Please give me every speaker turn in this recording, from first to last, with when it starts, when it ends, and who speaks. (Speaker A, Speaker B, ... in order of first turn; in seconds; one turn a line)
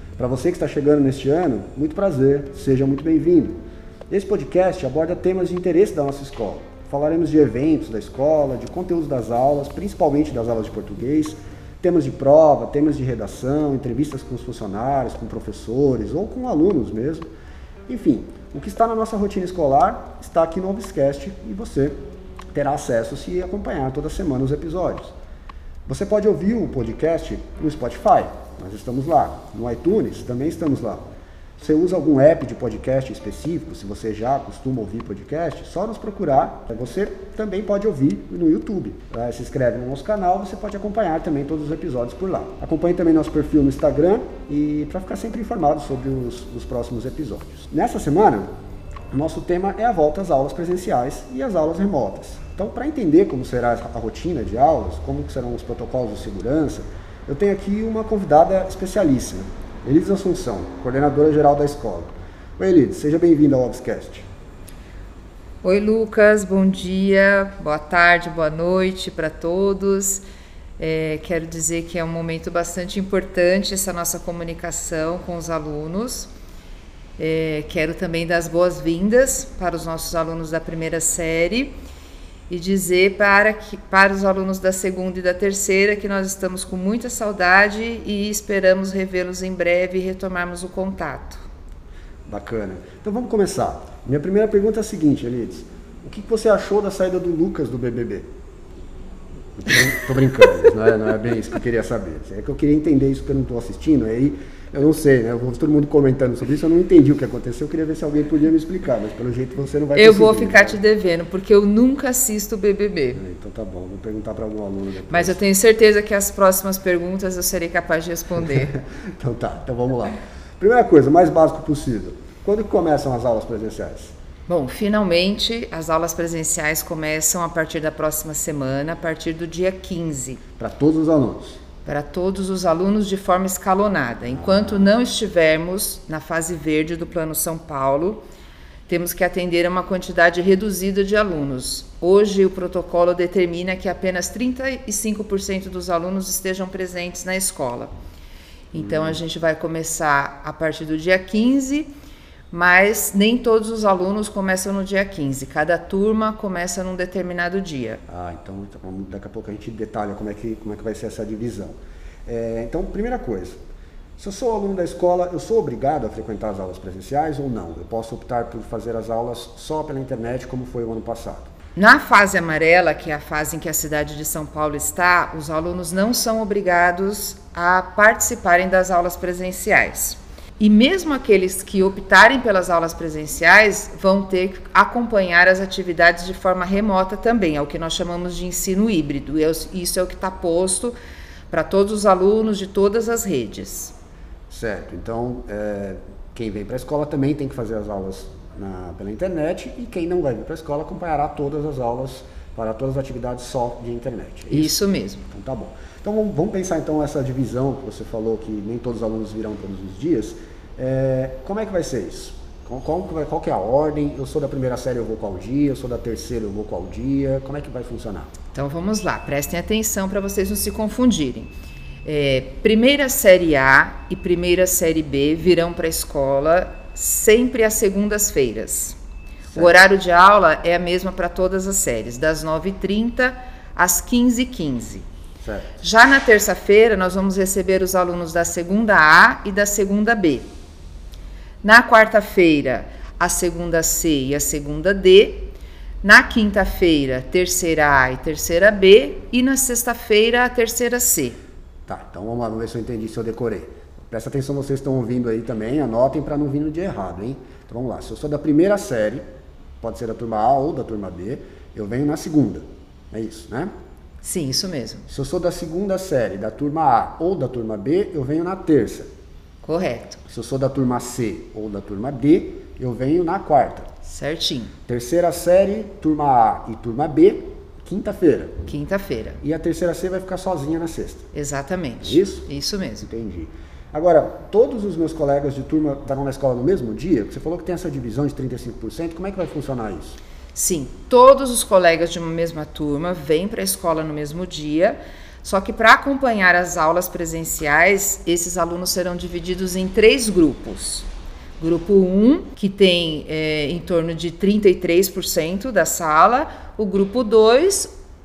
Speaker A: 0.2-17.3
Speaker A: 17.9-22.0
Speaker A: 22.5-25.1
Speaker A: 25.9-31.1
Speaker A: 31.6-48.5
Speaker A: 49.1-64.3
Speaker B: 65.6-70.2
Speaker B: 70.8-76.3
Speaker B: 77.2-81.8
Speaker B: 82.5-91.4
Speaker A: 92.3-98.3
Speaker A: 99.6-110.8
Speaker B: 110.0-113.2
Speaker A: 113.2-115.4
Speaker B: 115.1-118.7
Speaker A: 118.5-124.1
Speaker B: 124.5-130.4
Speaker A: 130.6-131.6
Speaker B: 131.8-138.2
Speaker A: 134.3-134.9
Speaker B: 138.9-147.9
Speaker B: 148.7-151.9
Speaker A: 148.8-149.2
Speaker B: 152.5-158.0
Speaker A: 158.1-163.6
Speaker A: 164.2-171.5
Speaker B: 171.8-190.9
Speaker B: 191.5-193.9
Speaker A: 194.5-204.8
Speaker B: 204.5-205.3
Speaker A: 205.3-218.3
Speaker B: 218.5-221.5
Speaker B: 222.1-229.0
Speaker A: 229.5-229.8
Speaker B: 229.6-235.1
Speaker A: 235.4-235.7
Speaker B: 235.8-240.5
Speaker B: 241.6-251.4
Speaker A: 251.9-259.2
Speaker A: 259.8-263.7
Speaker B: 264.2-265.1
Speaker A: 265.1-269.1
Speaker B: 269.6-270.2
Speaker A: 270.3-273.9
Speaker B: 274.0-274.7
Speaker A: 274.9-278.6
Speaker B: 278.7-279.4
Speaker A: 279.4-281.3
Speaker B: 281.3-283.1
Speaker A: 282.0-282.5
Speaker A: 283.0-290.2
Speaker B: 290.5-301.1
Speaker B: 301.6-307.9